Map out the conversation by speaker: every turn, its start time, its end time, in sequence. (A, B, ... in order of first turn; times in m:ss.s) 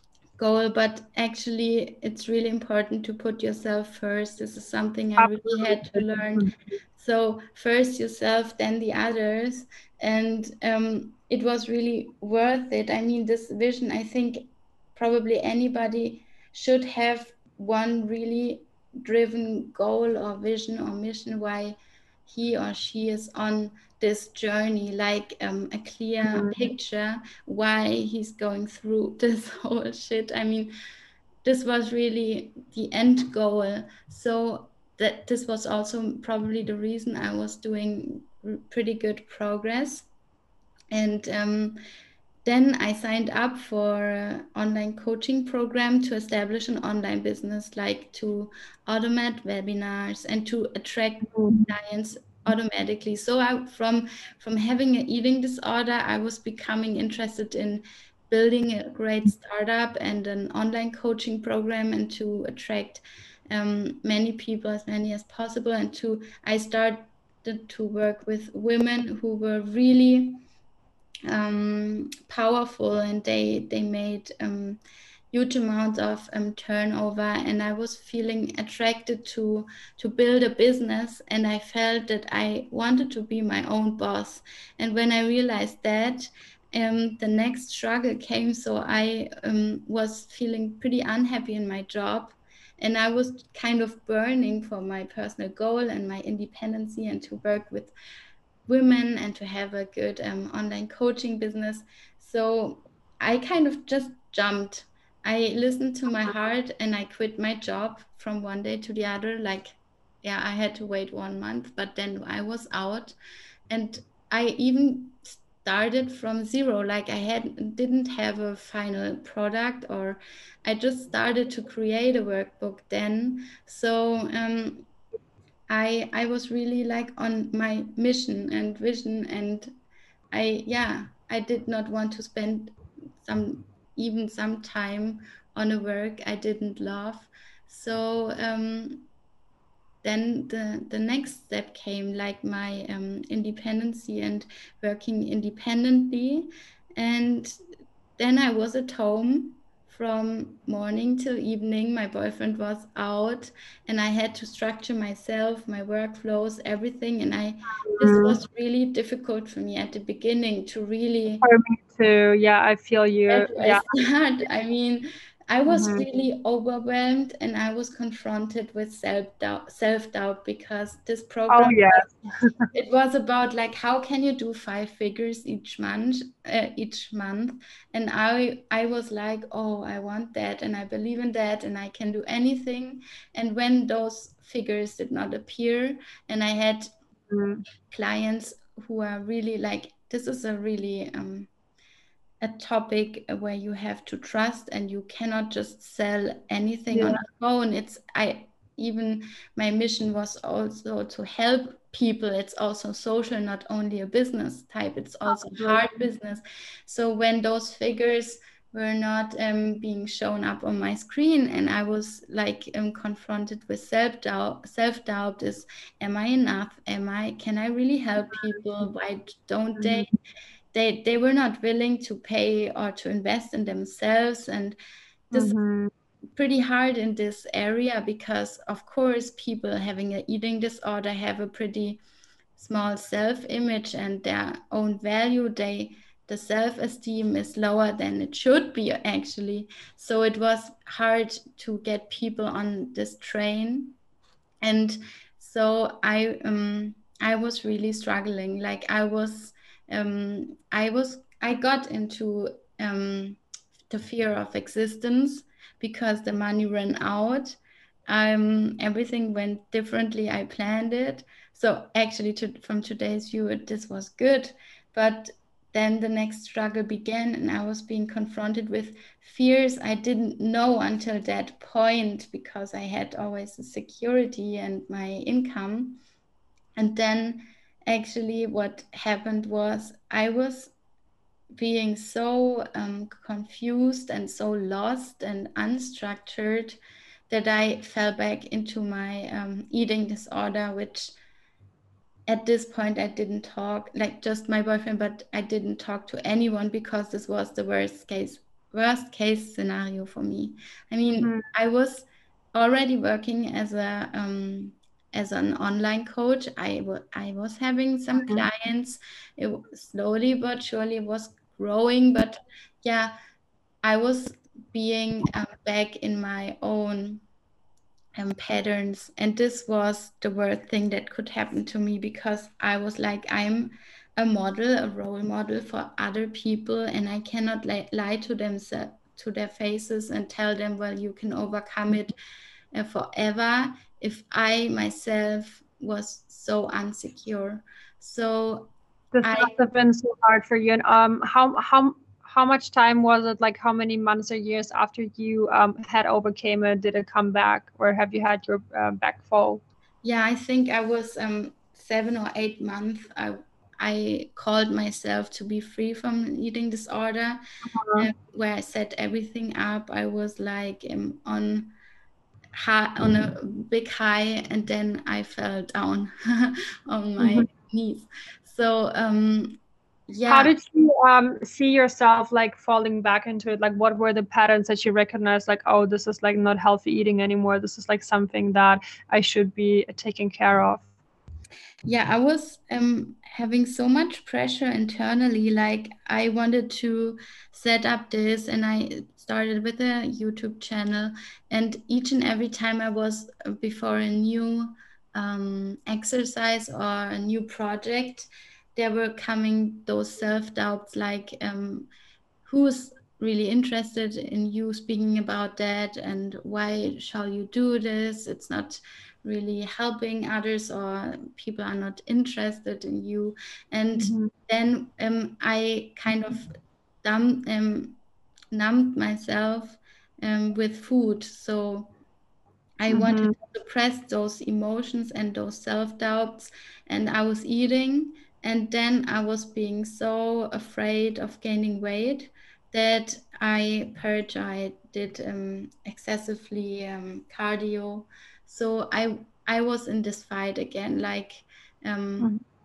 0:00.4-0:30.7 A
0:05.2-0:06.5 B
0:31.4-0:40.1 A
0:40.9-0:41.8 A
0:42.4-1:10.4 A
0:51.3-0:51.6 B
1:11.3-1:14.8 A
1:15.3-1:37.9 A
1:38.7-1:53.1 A
1:53.7-2:04.9 A
2:05.7-2:09.7 A
2:10.3-2:19.0 A
2:20.0-2:27.5 A
2:28.2-2:41.4 A
2:37.9-2:38.4 B
2:41.4-2:43.8 B
2:43.3-2:52.1 A
2:45.7-2:46.0 B
2:51.5-2:52.5 B
2:52.7-3:06.9 A
3:07.3-3:07.6 B
3:07.8-3:11.5 A
3:12.4-3:40.1 A
3:16.9-3:17.2 B
3:25.3-3:25.8 B
3:39.8-3:40.1 B
3:40.7-3:44.8 A
3:45.3-3:45.6 A
3:45.3-3:45.9 B
3:46.4-3:52.0 A
3:52.6-4:04.0 A
4:04.6-4:13.4 A
4:13.9-4:36.0 A
4:36.8-4:40.7 A
4:41.5-4:46.8 A
4:47.3-4:51.1 A
4:52.3-5:13.1 A
5:13.8-5:17.2 A
5:18.2-5:32.1 A
5:32.7-5:39.6 A
5:39.1-5:49.6 B
5:50.0-5:57.4 A
5:57.7-5:58.1 B
5:58.0-6:01.7 A
6:02.5-6:09.6 A
6:07.2-6:07.5 B
6:10.1-6:10.5 A
6:10.3-6:20.8 B
6:21.8-6:41.9 A
6:42.4-6:58.0 A
6:54.0-6:54.3 B
6:58.5-7:01.9 A
7:02.8-7:22.3 A
7:02.9-7:03.3 B